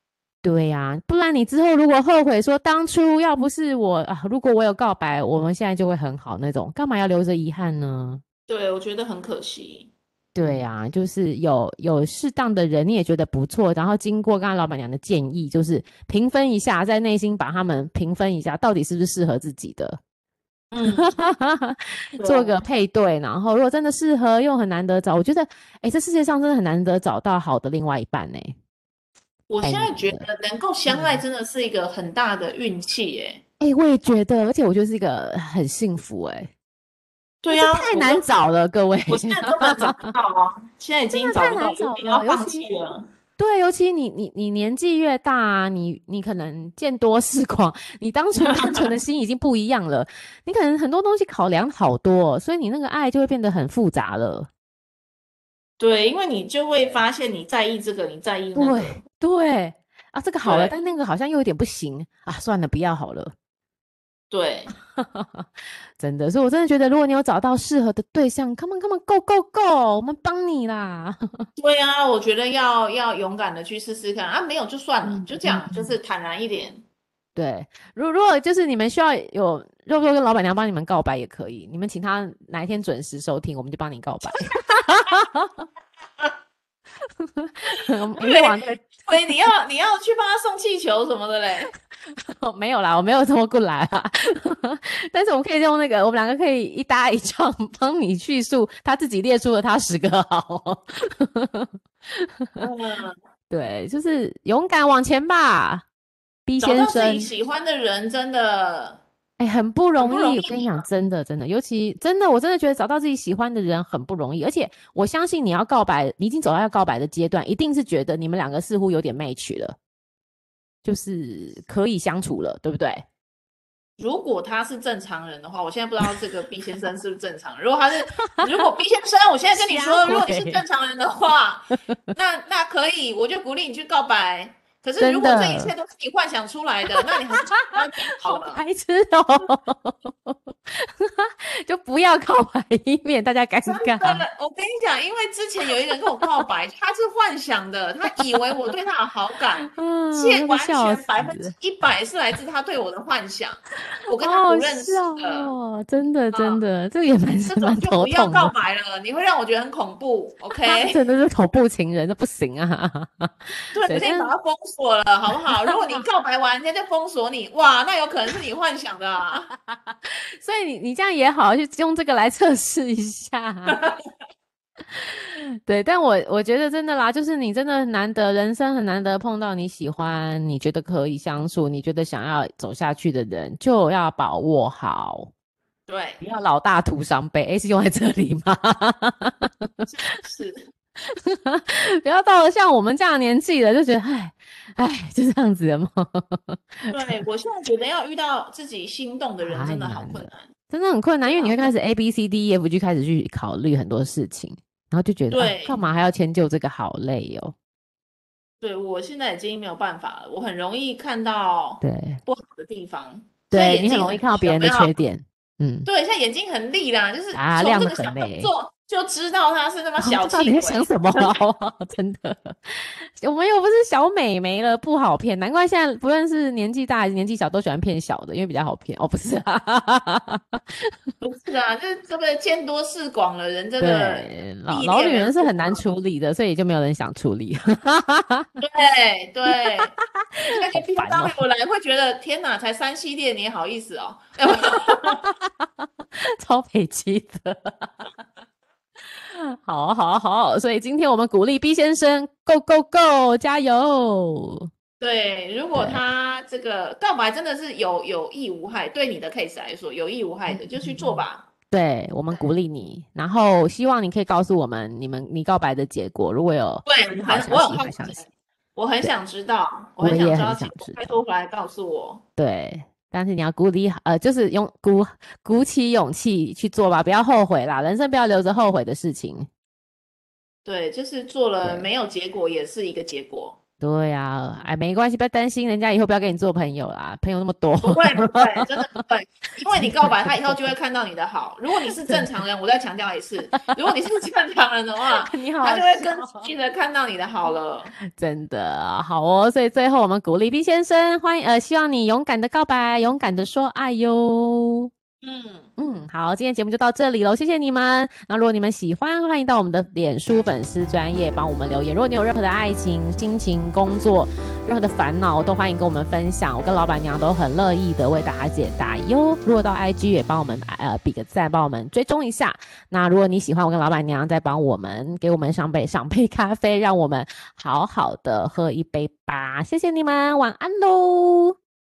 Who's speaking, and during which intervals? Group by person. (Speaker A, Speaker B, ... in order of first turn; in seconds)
Speaker A: 0.4-8.2, 10.3-20.0, 20.8-28.6, 29.6-30.3, 30.9-31.2, 33.6-36.5, 37.5-40.1, 41.1-42.7, 43.4-54.5, 58.5-63.3, 65.0-71.5, 75.0-76.0, 77.3-85.7, 87.2-89.1, 92.4-102.6, 103.5-105.8, 106.5-107.3, 109.4-119.8, 120.8-123.0, 129.5-130.6, 135.0-135.7, 137.0-144.2, 149.7-151.6, 154.1-158.5, 160.6-164.3, 165.6-166.0, 169.7-173.8, 174.9-185.3, 186.2-189.9, 191.1-197.1, 199.4-207.5, 211.8-212.2, 213.5-215.9, 217.3-218.5, 220.0-230.9, 233.8-238.6, 239.4-241.4, 244.6-245.9, 246.4-248.1, 249.1-254.7, 255.7-256.0, 260.5-268.2, 270.0-271.2, 272.4-279.5, 283.8-289.0, 289.7-290.7, 295.1-296.5, 298.1-304.9, 305.8-331.6
Speaker B: 8.5-9.9, 20.7-21.1, 22.2-22.5, 29.5-33.4, 37.4-38.2, 39.1-43.1, 48.4-48.9, 55.8-59.0, 60.4-60.7, 64.3-64.7, 71.6-76.8, 88.2-91.7, 102.6-103.2, 106.6-109.0, 110.0-110.8, 124.0-138.6, 143.7-155.5, 156.3-156.6, 157.4-161.0, 163.7-169.5, 173.7-174.0, 185.9-186.2, 189.9-190.6, 196.9-200.5, 201.2-201.6, 205.3-205.8, 208.6-214.9, 215.8-221.4, 231.2-235.8, 238.6-239.9, 240.5-245.2, 255.0-261.5, 266.9-272.2, 280.6-283.6, 287.8-297.9, 305.2-305.7